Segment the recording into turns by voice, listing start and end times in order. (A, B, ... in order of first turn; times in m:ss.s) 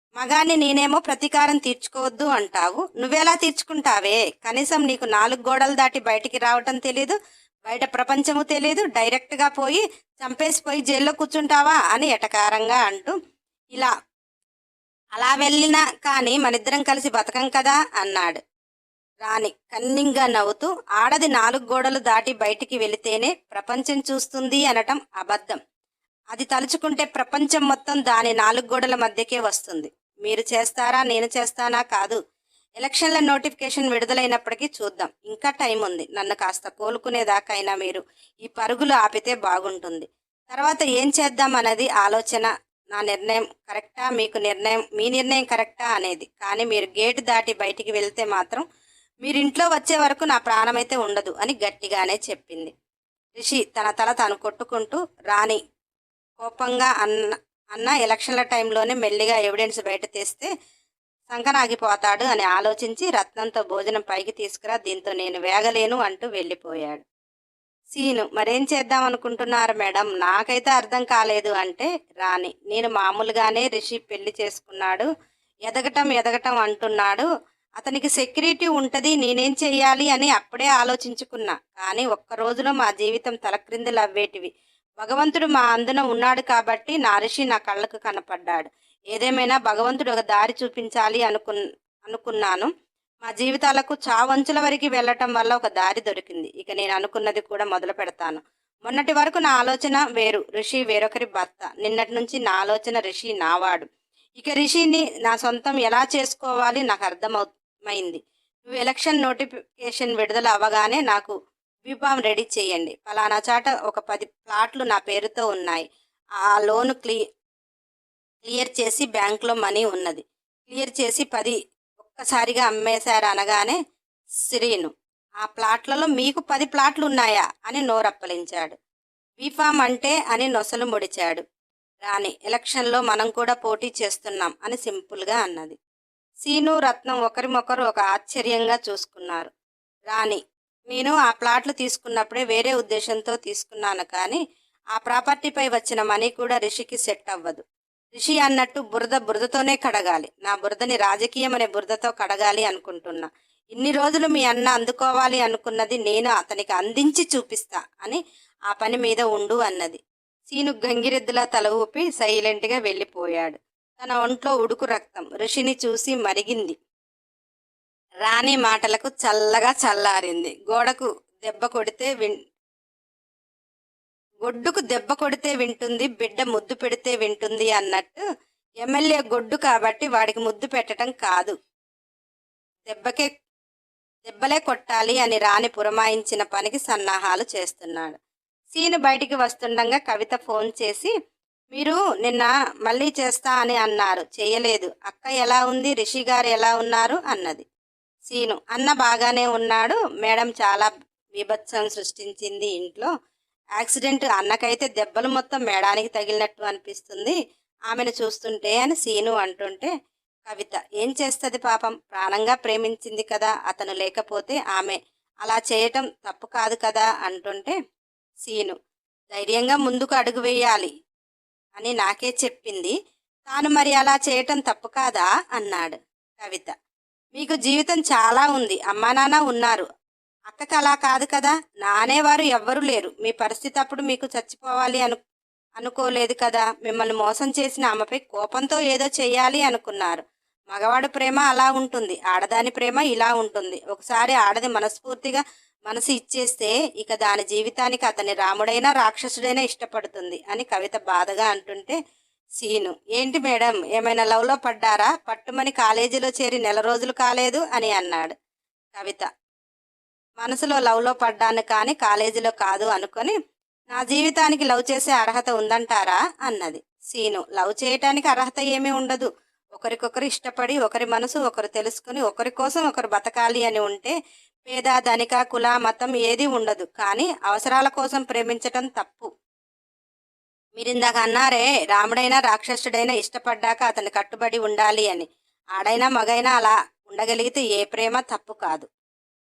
0:00.2-0:07.1 A
0:07.6-0:13.1 A
0:15.2-0:18.4 A
0:19.2-0:25.6 A
0:26.3-0:32.2 A
0:32.8-0:48.6 A
0:49.2-0:52.7 A
0:53.4-0:55.6 A
0:56.4-1:00.5 A
1:01.3-1:07.0 A
1:07.9-1:15.1 A
1:15.7-1:17.3 A
1:17.8-1:32.7 A
1:33.2-1:51.3 A
1:51.9-1:55.8 A
1:56.4-1:57.2 A
1:58.4-2:03.8 A
2:04.5-2:08.8 A
2:09.4-2:11.4 A
2:12.0-2:15.8 A
2:16.4-2:19.5 A
2:20.1-2:24.4 A
2:24.9-2:27.6 A
2:28.1-2:46.7 A
2:48.2-2:52.4 A
2:54.4-2:58.2 A
2:58.8-3:01.5 A
3:02.9-3:03.3 A
3:04.2-3:08.2 A
3:08.7-3:11.1 A
3:11.7-3:17.6 A
3:18.3-3:23.1 A
3:23.8-3:27.4 A
3:27.9-3:29.9 A
3:30.4-3:37.7 A
3:38.4-3:38.8 A
3:39.3-3:40.9 A
3:41.8-3:42.9 A
3:43.5-3:46.7 A
3:47.3-3:49.9 A
3:50.5-3:55.2 A
3:55.8-4:12.0 A
4:12.6-4:18.3 A
4:18.9-4:19.3 A
4:20.4-4:23.3 A
4:23.9-4:34.1 A
4:34.7-4:39.3 A
4:40.8-4:48.9 A